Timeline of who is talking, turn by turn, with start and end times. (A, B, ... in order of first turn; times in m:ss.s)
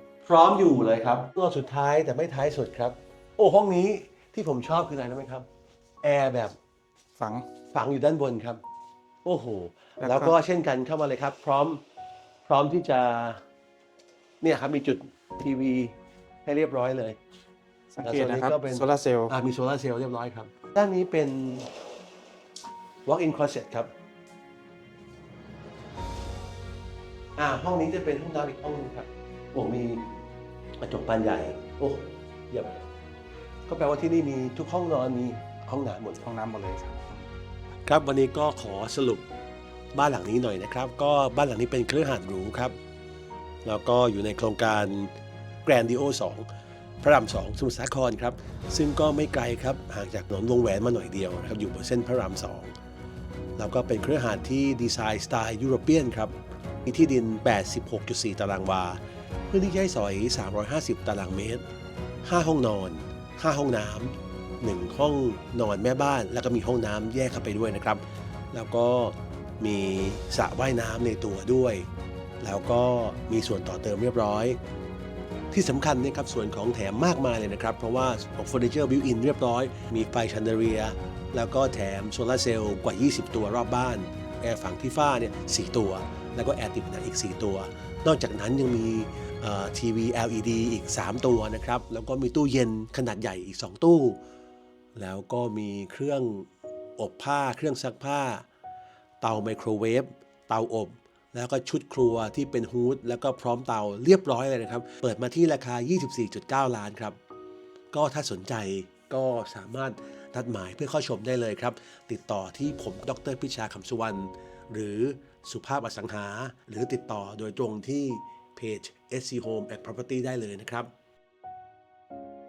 0:00.2-0:05.4 A
0:06.0-0:06.6 A
0:07.2-0:07.5 B
0:07.7-0:08.6 A
0:09.2-0:11.8 A
0:10.0-0:10.3 B
0:12.5-0:13.4 A
0:14.4-0:17.2 A
0:17.9-0:19.3 B
0:18.0-0:21.7 A
0:23.1-0:23.9 A
0:27.4-0:30.1 A
0:30.8-0:32.8 A
0:33.7-0:36.3 A
0:36.2-0:37.3 B
0:37.9-0:39.2 A
0:39.9-0:42.8 A
0:43.6-0:45.1 A
0:45.6-0:46.5 A
0:47.0-0:52.7 A
0:53.6-0:56.3 A
0:56.8-1:01.6 A
1:02.2-1:08.0 A
1:08.5-1:11.9 A
1:12.4-1:14.6 A
1:15.5-1:34.2 A
1:35.0-1:38.4 A
1:39.2-1:47.2 A
1:47.9-2:00.9 A